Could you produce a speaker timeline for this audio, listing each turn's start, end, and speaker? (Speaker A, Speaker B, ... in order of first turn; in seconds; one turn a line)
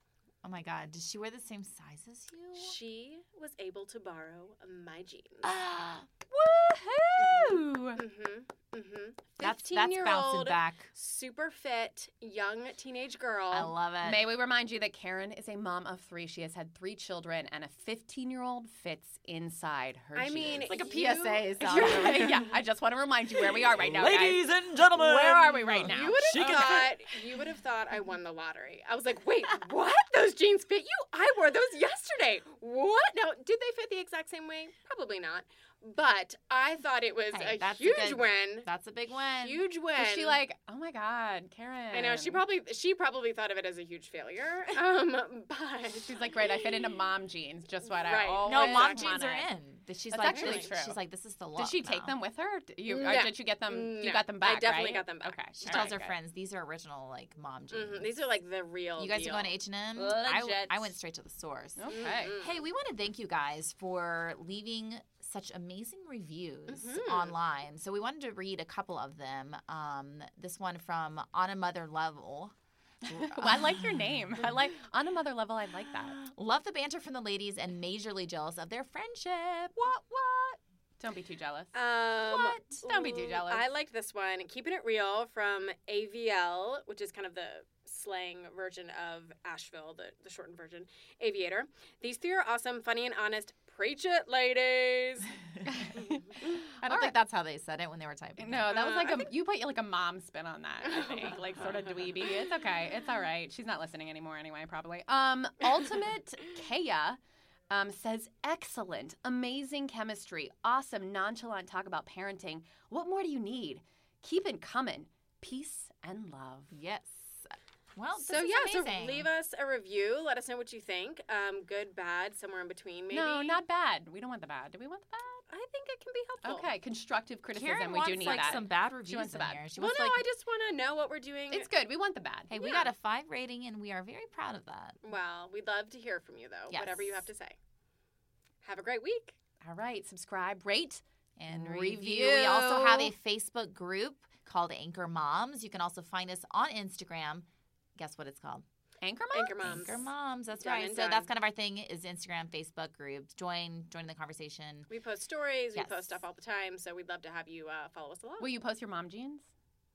Speaker A: 0.4-2.8
Speaker B: 2.5-5.5
Speaker A: 5.4-6.1
Speaker C: 6.3-8.0
Speaker B: 7.2-13.7
Speaker A: 9.4-10.9
Speaker A: 13.5-14.3
Speaker C: 14.0-27.0
Speaker B: 20.1-22.5
Speaker A: 20.6-22.6
Speaker A: 23.4-26.9
Speaker B: 25.8-38.7
Speaker A: 37.3-39.6
Speaker B: 39.4-40.4
Speaker C: 40.0-42.4
Speaker B: 41.9-46.6
Speaker C: 45.9-49.5
Speaker B: 48.0-49.1
Speaker A: 48.4-52.1
Speaker C: 50.1-51.0
Speaker B: 50.2-50.7
Speaker C: 51.5-56.1
Speaker B: 52.9-55.9
Speaker A: 55.6-58.1
Speaker B: 57.7-60.9
Speaker A: 59.0-74.5
Speaker C: 61.8-62.3
Speaker B: 61.9-62.5
Speaker B: 66.7-67.3
Speaker C: 73.1-76.2
Speaker A: 76.0-80.5
Speaker C: 81.0-83.7
Speaker B: 81.7-95.3
Speaker C: 95.7-97.2
Speaker A: 96.5-98.8
Speaker C: 98.4-107.2
Speaker B: 98.7-99.2
Speaker B: 100.8-101.4
Speaker C: 107.7-116.7
Speaker A: 116.7-119.3
Speaker B: 118.2-123.6
Speaker C: 123.1-125.4
Speaker B: 125.5-126.7
Speaker C: 126.4-129.7
Speaker A: 127.5-130.2
Speaker B: 129.8-131.7
Speaker C: 131.5-132.5
Speaker A: 132.5-135.0
Speaker B: 132.5-132.9
Speaker B: 135.0-137.6
Speaker A: 136.7-137.3
Speaker B: 138.6-139.3
Speaker C: 139.6-143.1
Speaker A: 141.4-148.6
Speaker C: 149.0-149.6
Speaker B: 149.3-150.0
Speaker A: 149.6-154.9
Speaker B: 150.5-151.3
Speaker B: 154.9-158.5
Speaker A: 155.7-156.2
Speaker C: 158.4-159.4